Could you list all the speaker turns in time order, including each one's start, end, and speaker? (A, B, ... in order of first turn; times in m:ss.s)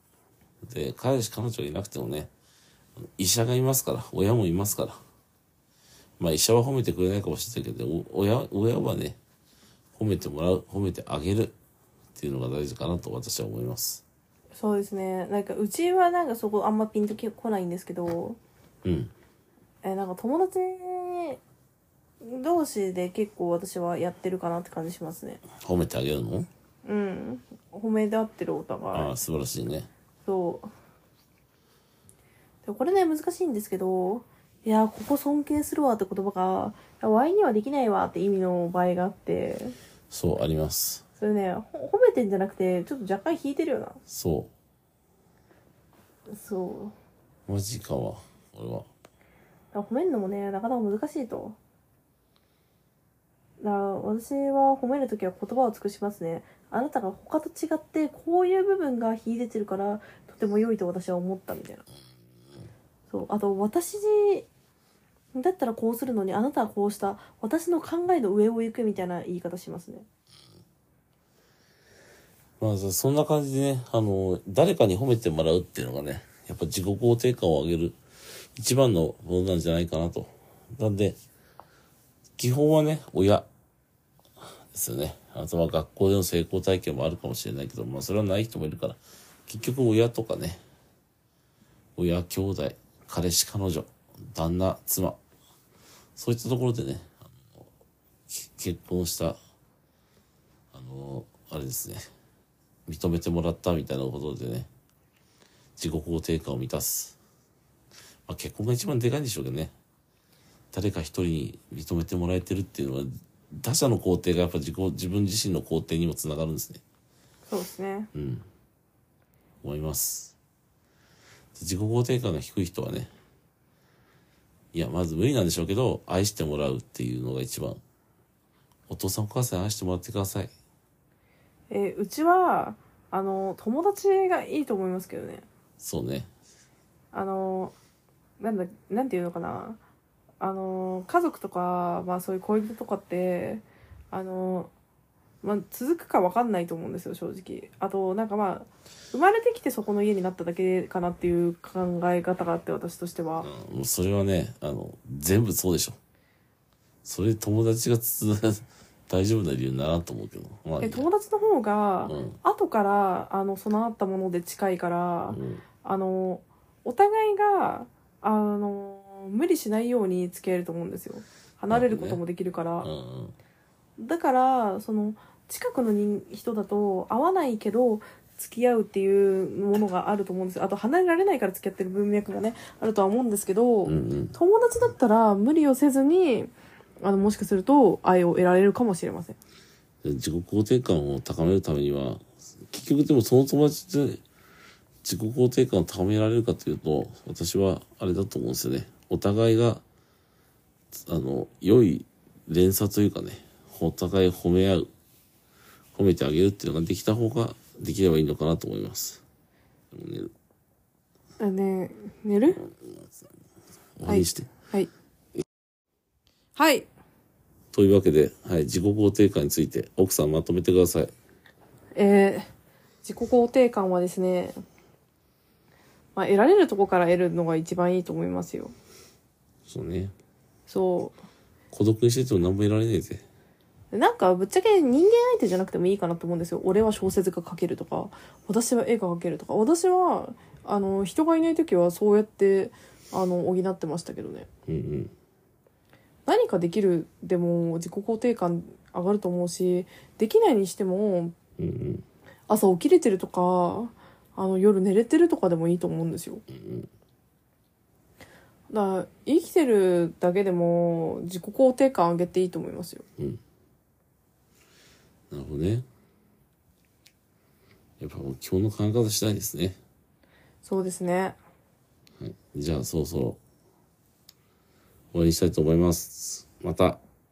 0:00.6-0:02.3 A
0:03.0-0:05.0 A
0:06.2-0:09.2 A
0:10.0-0:11.5 A
0:12.1-0:14.0 A
0:14.5-0:18.4 B
0:18.8-0:19.1 A
0:19.8-0:21.4 B
0:22.2-0:25.4 B
0:25.6-0:26.5 A
0:26.8-0:29.1 B
0:28.9-0:29.9 A
0:30.2-0:30.7 B
0:32.6-0:39.8 B
0:40.1-0:41.0 A
0:41.2-0:44.0 B
0:44.1-0:44.5 A
0:46.3-0:46.9 B
0:47.5-0:48.9 A
0:49.7-0:51.6 B
0:53.6-1:01.8 B
1:03.1-1:04.5 B
1:05.3-1:10.0 B
1:12.6-1:18.0 A
1:18.5-1:21.2 A
1:22.4-1:23.4 A
1:24.7-1:30.6 A
1:32.0-1:35.2 A
1:36.2-1:37.7 A
1:38.3-1:39.4 A
1:40.7-1:42.0 A
1:42.9-1:44.7 A
1:45.8-1:47.2 A
1:48.3-1:49.7 A
1:50.7-1:56.8 A
1:57.5-1:58.1 B
1:58.1-1:58.4 A
1:59.6-2:00.4 A
2:01.6-2:03.1 A
2:04.7-2:07.8 A
2:08.9-2:10.5 A
2:11.7-2:15.4 B
2:15.8-2:16.3 A
2:17.1-2:17.7 B
2:18.4-2:19.8 B
2:20.4-2:24.7 B
2:25.4-2:33.5 B
2:33.4-2:36.0 A
2:37.0-2:41.1 A
2:40.8-2:52.9 B
2:42.0-2:42.4 A
2:45.3-2:45.6 A
2:51.7-2:52.2 A
2:52.8-2:53.3 A
2:54.0-3:09.4 B
3:03.8-3:04.4 A
3:10.0-3:14.2 A
3:15.0-3:19.8 A
3:21.1-3:24.9 A
3:25.9-3:29.2 A
3:29.9-3:30.3 A
3:31.4-3:32.6 B
3:32.6-3:33.1 A
3:34.0-3:34.5 A
3:34.0-3:34.9 B
3:36.5-3:36.9 B
3:37.7-3:41.1 A
3:41.9-3:42.5 B
3:43.0-3:44.6 B
3:46.1-3:48.7 B
3:49.7-3:50.1 A
3:50.7-3:51.2 B
3:51.7-3:53.2 A
3:53.9-4:04.5 B
4:04.7-4:05.1 A
4:06.3-4:11.3 B
4:11.6-4:12.0 A
4:12.5-4:16.4 B
4:16.5-4:16.9 A
4:18.7-4:23.0 B
4:25.3-4:25.8 A
4:28.0-4:29.8 A
4:30.6-4:31.4 B
4:32.2-4:33.4 A
4:35.1-4:37.0 A